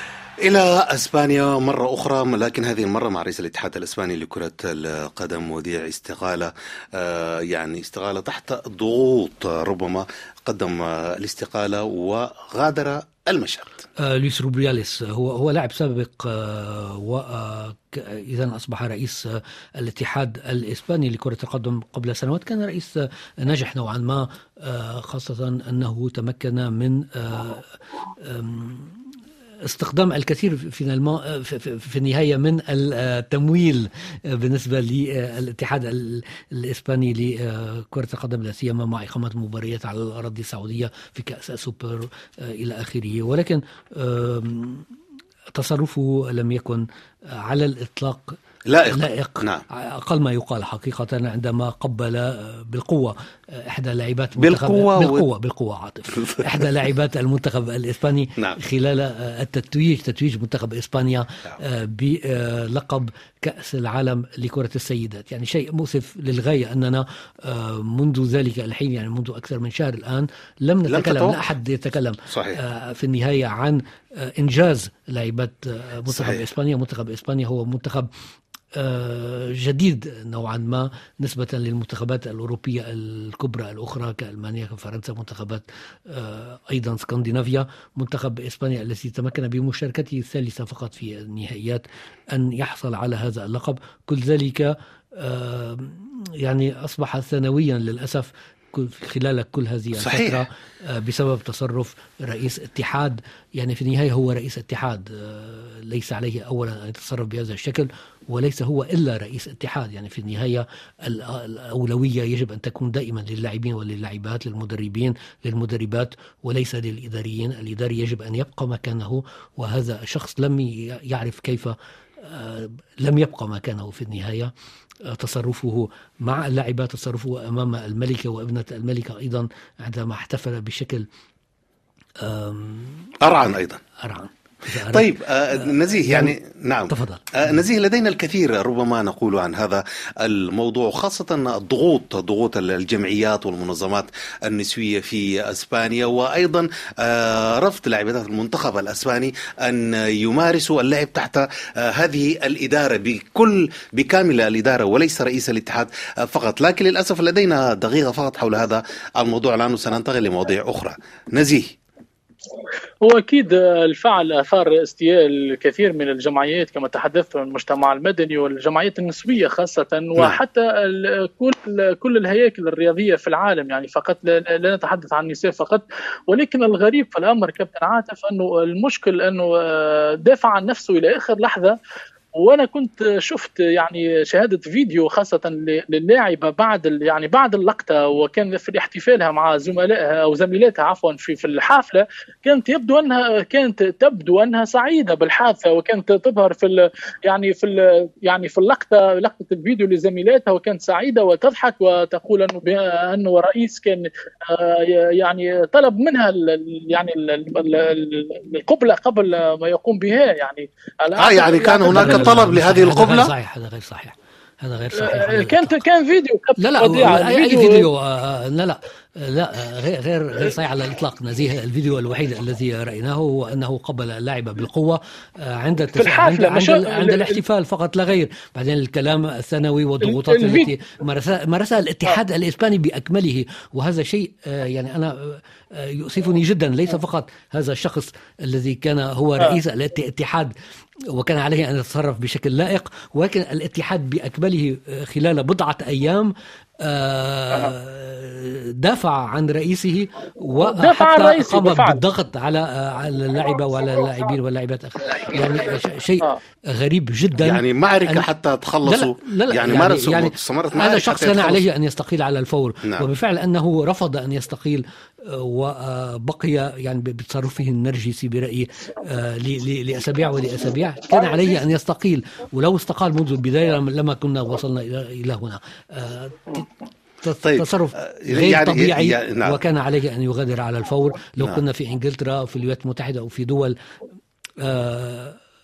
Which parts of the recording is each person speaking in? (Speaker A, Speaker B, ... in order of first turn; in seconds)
Speaker A: 0.4-13.8, 48.7-49.6, 54.4-55.3, 56.1-56.7, 70.9-71.4, 72.3-72.6, 76.1-76.4, 100.0-100.4, 133.2-133.8, 134.9-161.8, 211.2-213.3, 257.4-261.6, 277.4-279.6
Speaker B: 14.0-29.0, 29.7-44.9, 45.5-78.1, 78.7-124.5, 125.1-131.1, 132.2-133.1, 134.0-136.3, 136.9-137.3, 211.9-215.8, 216.6-240.5, 241.1-258.3, 258.9-276.7, 277.2-283.8, 284.6-285.4
Speaker C: 163.0-181.8, 182.3-212.3, 215.0-217.9, 226.0-227.4, 230.1-230.7, 250.6-252.0